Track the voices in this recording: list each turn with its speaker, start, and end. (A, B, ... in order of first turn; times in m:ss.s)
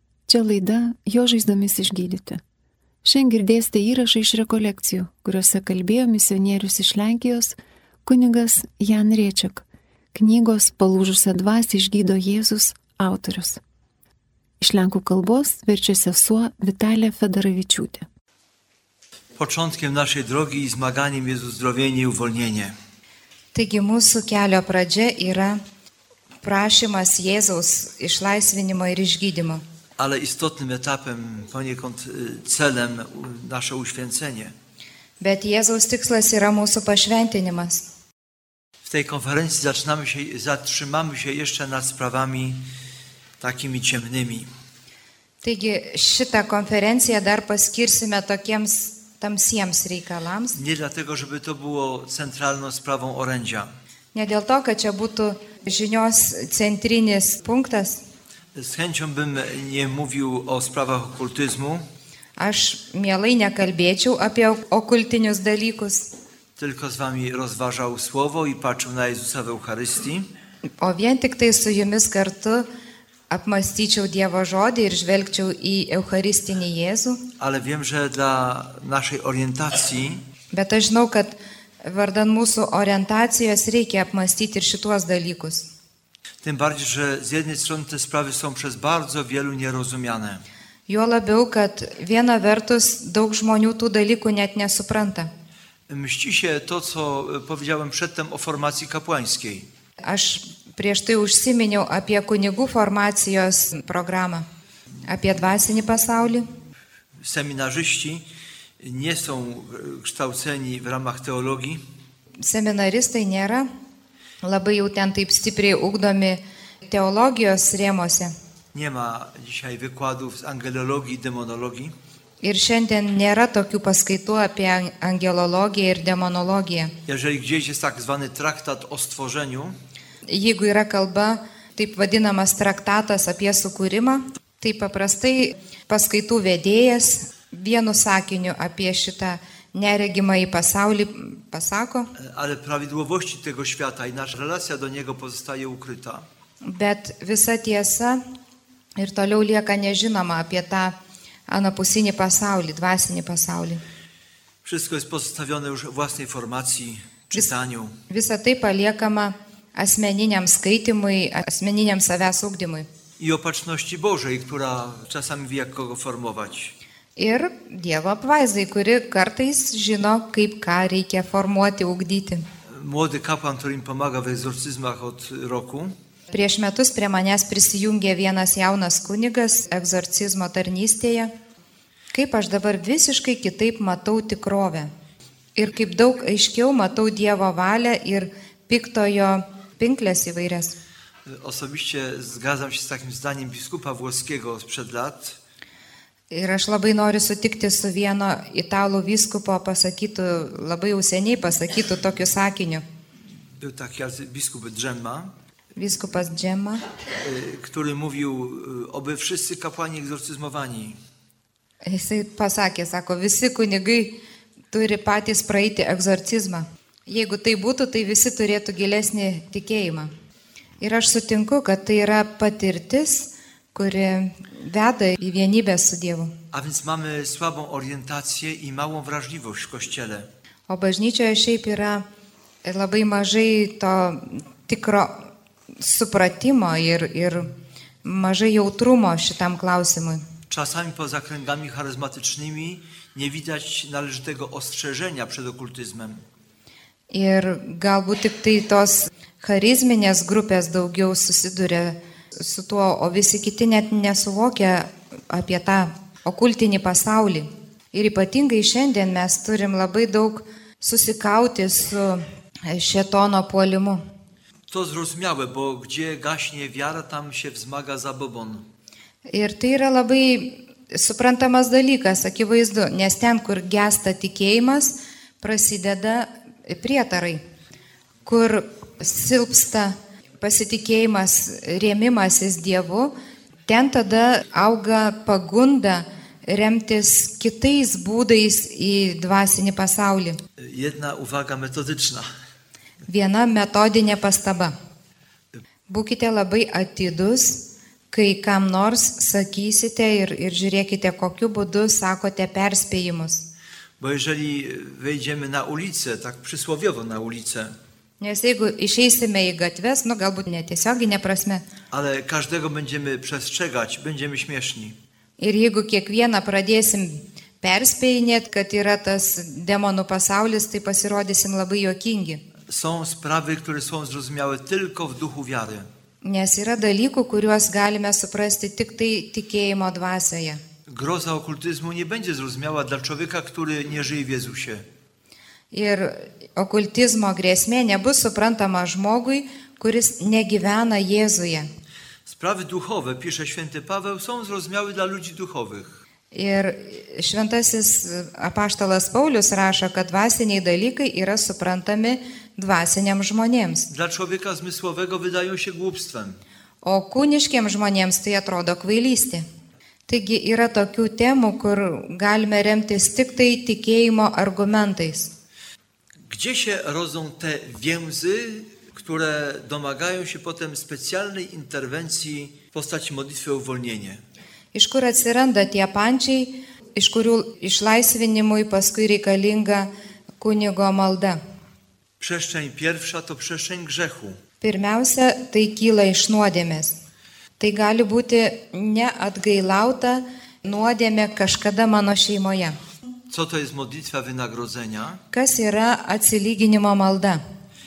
0:00.3-0:02.4 A
0:03.0-0:13.6 A
0:14.6-0:18.0 A
0:19.4-0:22.7 B
0:23.5-0:25.6 C
0:26.4-0:29.6 C
0:30.0-0:34.5 B
0:35.2-0:37.8 C
0:38.8-0:42.6 B
0:43.4-0:44.5 B
0:45.4-0:50.6 C
0:50.5-0:53.7 B
0:54.1-0:58.0 C
0:58.5-1:01.9 B
1:02.4-1:06.1 C
1:06.6-1:10.3 B
1:10.8-1:12.7 C
1:13.3-1:17.2 C
1:17.4-1:20.2 B
1:20.5-1:25.7 C
1:26.4-1:30.4 B
1:30.9-1:35.3 C
1:35.9-1:39.7 B
1:40.0-1:44.4 C
1:45.1-1:46.5 C
1:47.2-1:48.2 B
1:48.8-1:51.8 B
1:52.4-1:53.7 C
1:54.4-1:58.3 C
1:58.7-2:01.9 B
2:02.4-2:06.9 C
2:07.0-2:09.8 B
2:10.3-2:22.1 C
2:22.2-2:26.3 B
2:26.6-2:28.2 C
2:29.0-2:30.9 C
2:31.5-2:33.8 C
2:34.6-2:38.0 B
2:38.1-2:42.9 C
2:43.2-2:46.7 B
2:47.2-2:52.4 C
2:52.7-2:55.9 B
2:56.3-3:01.3 C
3:02.1-3:04.9 C
3:05.6-3:10.7 C
3:11.2-3:15.4 B
3:16.3-3:22.8 C
3:23.4-3:25.3 B
3:25.8-3:26.8 C
3:27.2-3:31.0 B
3:31.8-3:34.1 C
3:34.7-3:40.1 C
3:40.8-3:46.3 C
3:46.5-3:50.3 B
3:50.7-3:52.0 C
3:52.6-3:55.2 C
3:55.8-3:57.5 C
3:58.0-4:00.2 C
4:00.5-4:06.2 B
4:07.1-4:24.0 C
4:24.7-4:28.6 B
4:29.3-4:37.4 C
4:38.2-4:43.1 C
4:43.7-4:50.4 C
4:50.6-4:52.3 B
4:53.1-4:54.7 C
4:55.9-4:57.6 C
4:58.1-5:03.5 C
5:04.0-5:07.7 B
5:08.2-5:11.6 C
5:11.9-5:15.0 B
5:15.4-5:22.4 C
5:22.7-5:25.9 B
5:26.2-5:30.6 C
5:30.9-5:34.8 B
5:35.7-5:41.7 C
5:42.2-5:46.0 B
5:46.3-5:53.9 C
5:53.9-5:56.4 B
5:56.8-5:59.4 C
6:00.1-6:05.3 C
6:06.3-6:14.2 B
6:14.7-6:19.9 C
6:20.4-6:21.4 C
6:22.2-6:24.4 B
6:24.6-6:26.9 C
6:27.6-6:32.8 C
6:33.3-6:35.2 B
6:35.3-6:37.4 C